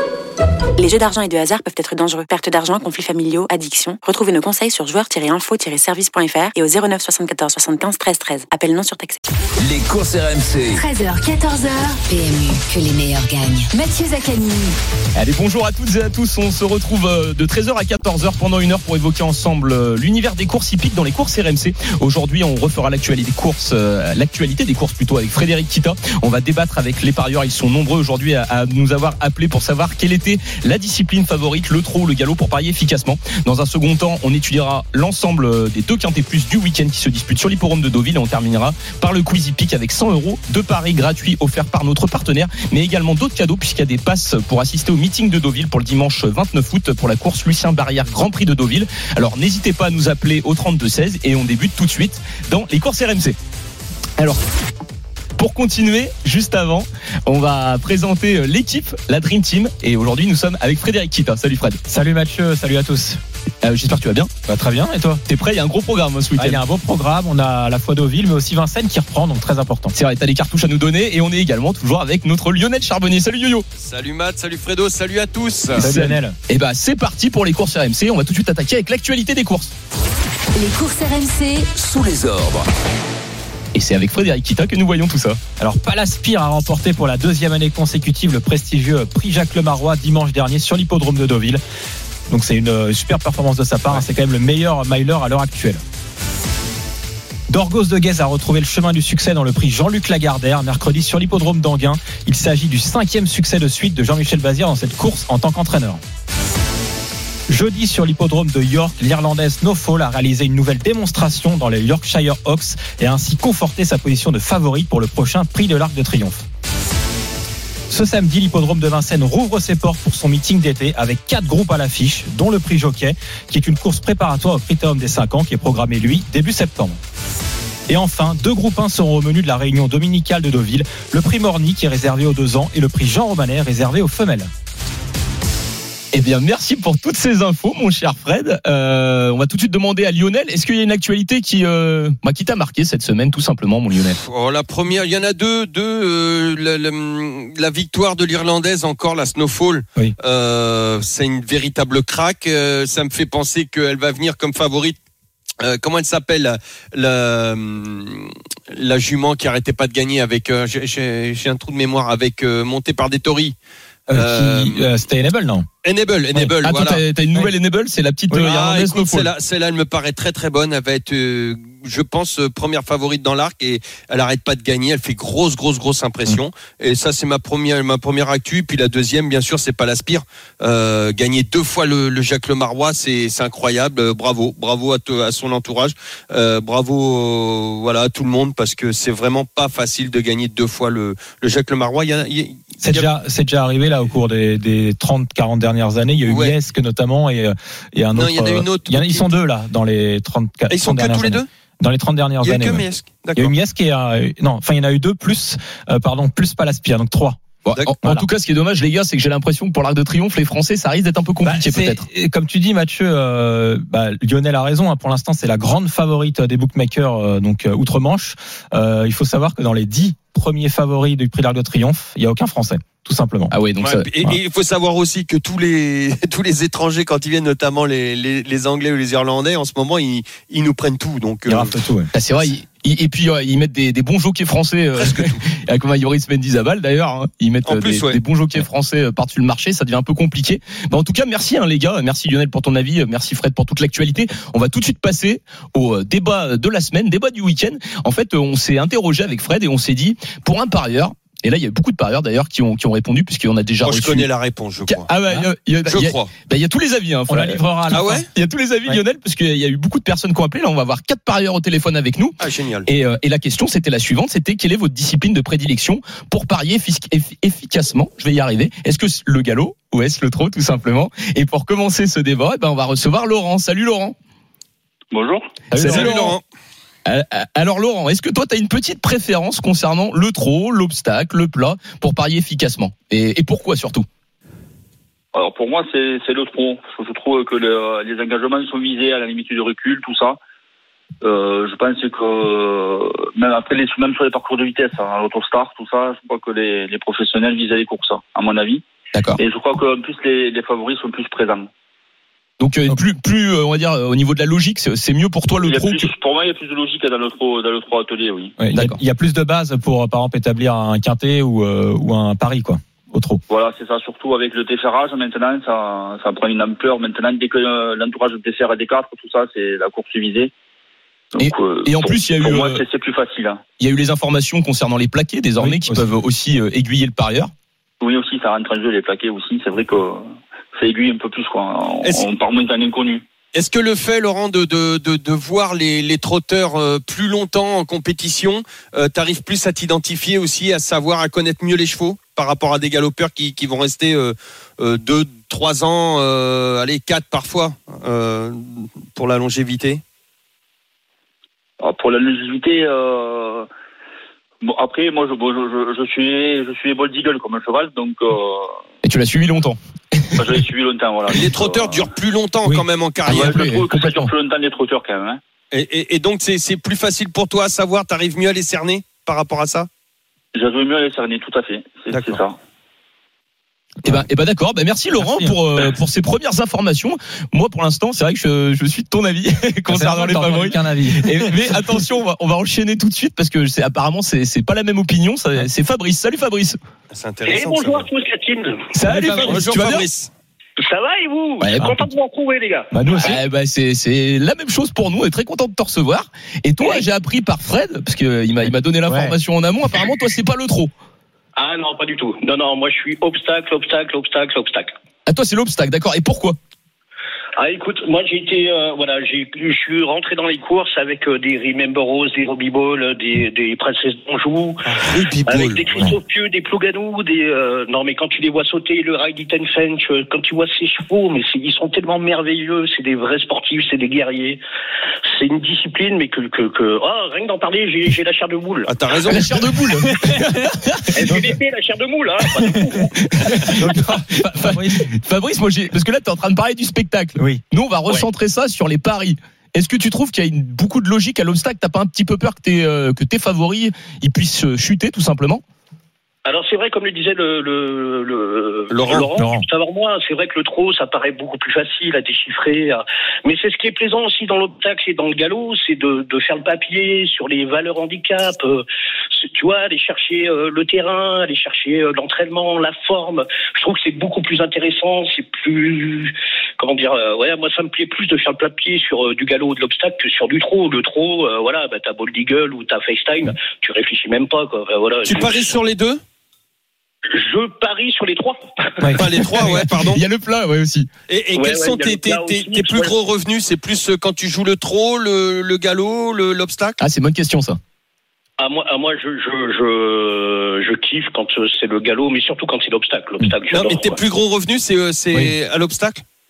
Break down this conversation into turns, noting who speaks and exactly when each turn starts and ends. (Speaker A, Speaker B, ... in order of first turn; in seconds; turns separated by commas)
Speaker A: 0.8-9.2, Speaker B: 9.6-10.9, Speaker C: 10.8-14.8, Speaker D: 15.2-53.4, Speaker D: 55.4-61.8, Speaker E: 61.9-63.2, Speaker D: 63.6-64.3, Speaker E: 64.5-65.2, Speaker D: 65.3-66.6, Speaker E: 66.4-69.9, Speaker D: 69.9-73.7, Speaker F: 73.8-75.9, Speaker E: 75.8-76.3, Speaker D: 75.8-79.7, Speaker C: 80.6-81.7, Speaker B: 81.8-82.7, Speaker D: 83.7-85.4, Speaker E: 85.6-91.6, Speaker E: 92.3-95.8, Speaker E: 97.5-106.0, Speaker E: 107.5-116.5, Speaker E: 117.9-127.0, Speaker E: 127.9-134.5, Speaker D: 136.1-144.2, Speaker F: 144.1-155.0, Speaker F: 155.6-163.6, Speaker E: 164.1-165.7, Speaker F: 164.1-164.9, Speaker F: 165.8-167.0, Speaker D: 166.6-169.3, Speaker F: 168.3-193.1, Speaker E: 192.8-202.8, Speaker F: 196.3-196.6, Speaker F: 198.1-199.3, Speaker F: 200.7-201.5, Speaker F: 202.4-203.5, Speaker E: 203.4-207.4, Speaker D: 207.7-212.0, Speaker E: 211.4-223.5, Speaker D: 223.5-224.1, Speaker F: 223.8-231.8, Speaker E: 231.5-232.1, Speaker D: 232.1-254.3, Speaker F: 235.0-235.4, Speaker F: 237.7-238.2, Speaker F: 253.8-255.1, Speaker D: 254.9-262.4, Speaker F: 255.8-256.3, Speaker E: 257.3-258.2, Speaker F: 257.9-258.3, Speaker F: 262.4-262.9, Speaker D: 262.9-274.1, Speaker G: 275.1-276.1, Speaker D: 275.7-276.4, Speaker F: 275.8-276.4, Speaker D: 277.1-284.1, Speaker G: 285.3-290.4, Speaker G: 291.2-298.8, Speaker D: 299.1-299.4, Speaker G: 299.4-301.7, Speaker D: 302.6-306.1, Speaker G: 305.6-308.6, Speaker E: 308.6-313.4, Speaker D: 308.7-309.0, Speaker G: 313.5-320.5, Speaker G: 321.3-323.6, Speaker D: 321.4-322.8, Speaker D: 323.8-327.5, Speaker E: 325.6-326.1, Speaker G: 328.0-333.2, Speaker F: 333.5-350.0, Speaker G: 351.8-353.7, Speaker G: 354.6-358.8, Speaker D: 359.0-360.6, Speaker G: 360.4-362.1, Speaker F: 361.3-363.6, Speaker G: 363.3-365.4, Speaker D: 363.3-364.3, Speaker F: 365.7-369.9, Speaker G: 370.5-372.6, Speaker F: 372.1-372.4, Speaker D: 374.0-386.8, Speaker E: 375.2-375.6, Speaker E: 379.9-381.6, Speaker F: 387.1-388.1, Speaker H: 387.5-389.7, Speaker D: 388.9-390.1, Speaker E: 389.1-389.6, Speaker F: 389.4-390.3, Speaker H: 390.8-393.4, Speaker D: 391.6-392.0, Speaker E: 392.9-393.4, Speaker D: 393.2-400.9, Speaker E: 399.1-399.4, Speaker H: 401.6-404.9, Speaker D: 405.3-406.6, Speaker H: 407.6-424.6, Speaker F: 414.9-416.1, Speaker H: 425.3-428.9, Speaker F: 428.9-429.6, Speaker D: 429.3-431.5, Speaker H: 431.1-433.1, Speaker D: 433.4-445.6, Speaker E: 433.7-435.1, Speaker H: 446.4-475.8, Speaker F: 448.9-449.3, Speaker E: 449.4-449.7, Speaker F: 475.2-476.2, Speaker H: 477.3-479.1, Speaker F: 479.1-480.2, Speaker D: 479.7-481.1, Speaker F: 481.3-487.0, Speaker H: 481.5-483.1, Speaker D: 487.0-487.8, Speaker H: 488.6-494.2, Speaker F: 493.7-496.2